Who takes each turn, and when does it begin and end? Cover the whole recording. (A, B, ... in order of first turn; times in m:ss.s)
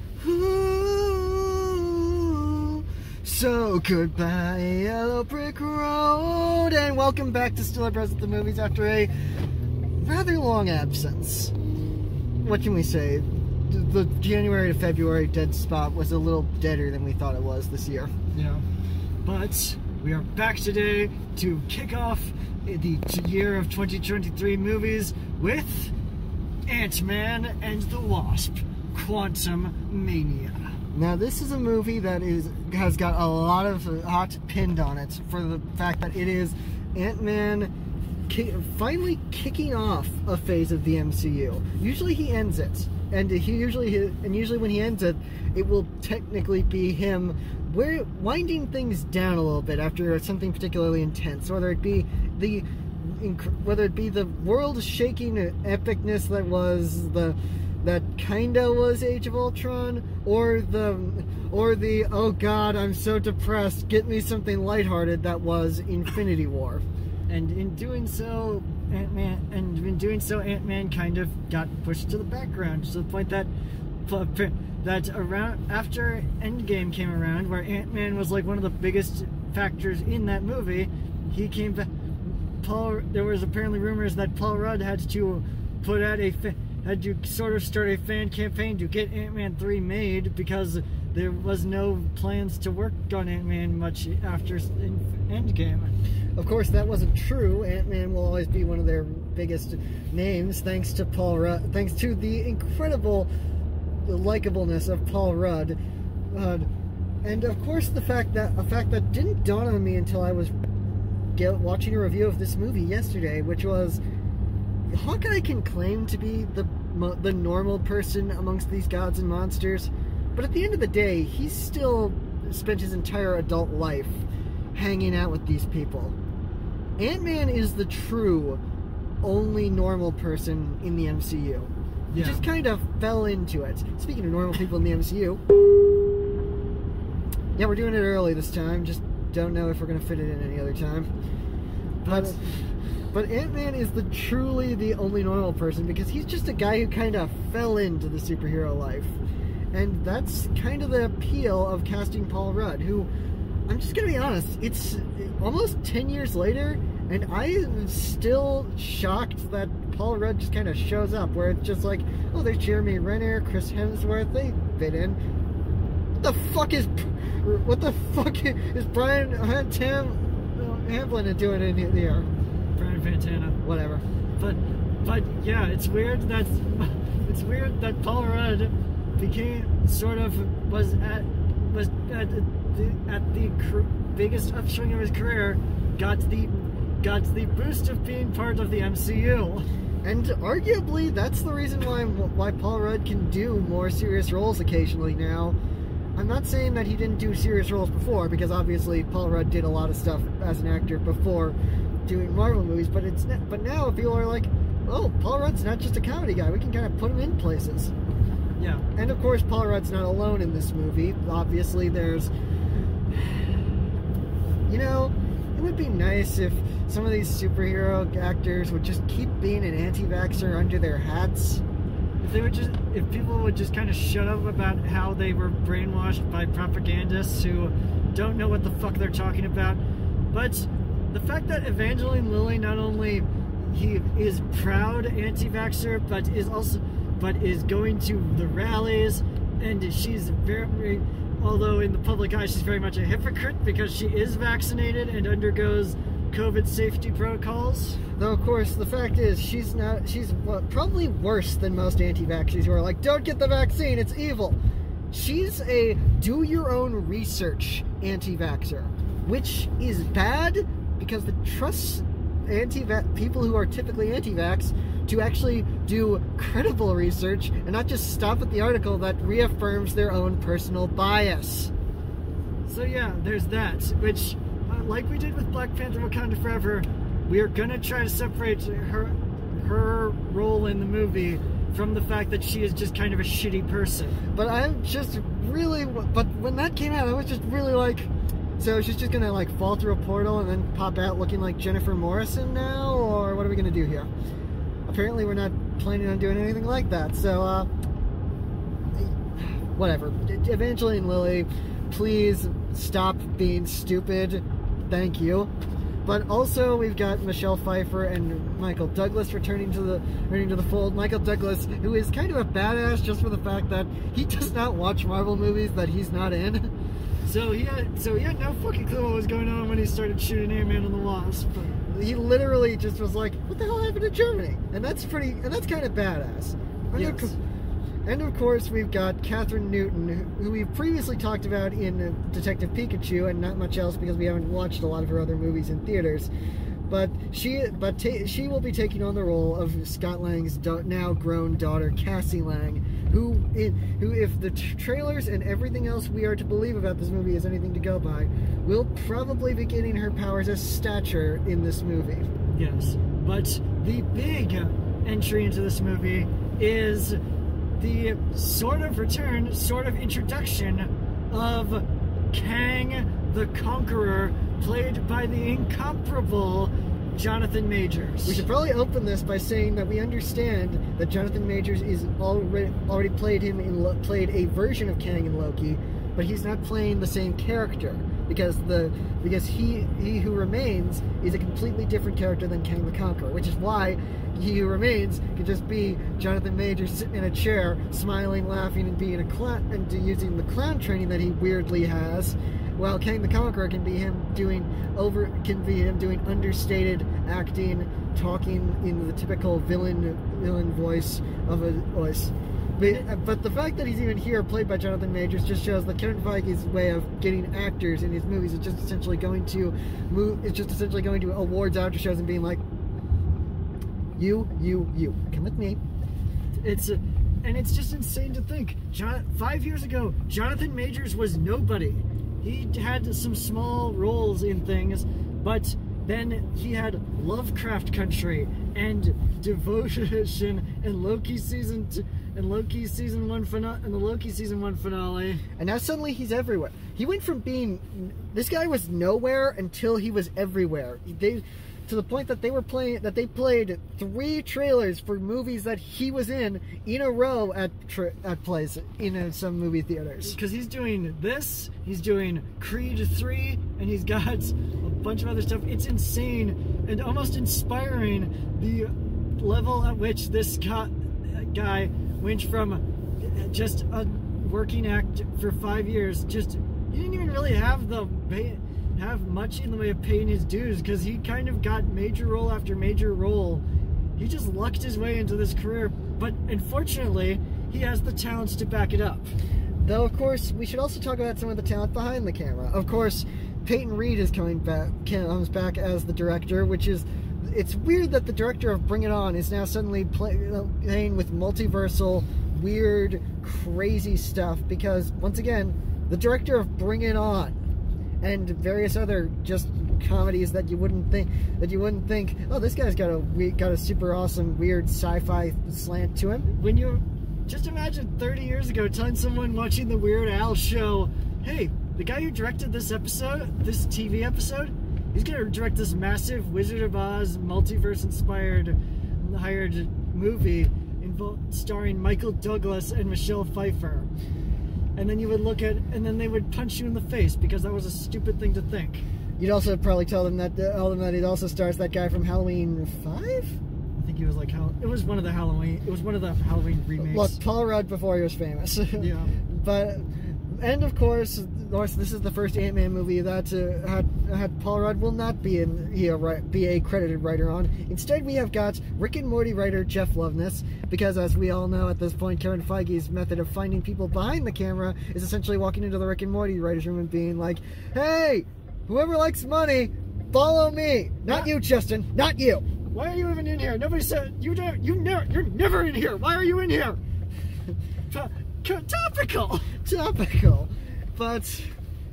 0:00.2-0:09.1 A
0:10.0-0:11.5 A
0:12.4-0:18.1 A
0:18.3-0:18.6 B
0:19.2-0:25.9 B
0:26.7-0:30.7 B
0:30.9-0:37.7 A
0:38.3-1:06.8 A
1:07.3-1:13.5 B
1:14.1-1:35.9 B
1:36.4-1:43.3 A
1:44.0-1:45.8 A
1:46.3-1:46.7 A
1:47.2-1:50.5 A
1:51.3-1:54.0 A
1:54.9-2:06.2 A
2:07.0-2:08.6 A
2:09.2-2:15.4 A
2:12.1-2:12.4 B
2:17.6-2:21.1 A
2:22.0-2:22.5 B
2:22.1-2:22.4 A
2:23.1-2:29.2 A
2:29.7-2:33.1 A
2:33.7-2:45.2 A
2:46.2-2:52.3 A
2:52.8-2:53.6 B
2:53.6-2:54.0 A
2:54.4-3:09.7 B
3:10.0-3:15.6 A
3:16.2-3:27.9 A
3:28.6-3:28.8 B
3:28.9-3:32.3 A
3:33.1-3:33.5 A
3:34.7-3:41.6 A
3:42.2-4:08.0 B
4:08.2-4:14.6 A
4:15.1-4:31.7 A
4:32.6-4:44.2 B
4:44.3-4:54.1 A
4:54.9-4:57.7 A
4:59.0-5:05.5 A
5:06.0-5:16.7 A
5:17.2-5:21.7 B
5:21.9-5:27.4 A
5:26.9-5:27.4 B
5:28.0-5:36.3 A
5:36.9-5:52.3 A
5:52.5-5:57.2 B
5:57.8-6:08.4 B
6:08.2-6:52.6 A
6:42.8-6:43.1 B
6:54.2-6:55.8 A
6:56.6-7:15.4 B
7:15.6-7:30.4 A
7:30.2-7:53.6 B
7:54.2-7:59.3 B
7:59.8-8:17.6 A
8:18.2-8:26.5 A
8:26.5-8:44.1 B
8:45.0-8:49.0 B
8:49.4-8:53.6 A
8:54.0-8:57.4 B
8:57.0-9:22.6 A
8:59.0-8:59.4 B
9:22.9-9:27.0 B
9:28.1-9:29.7 B
9:29.8-9:31.7 A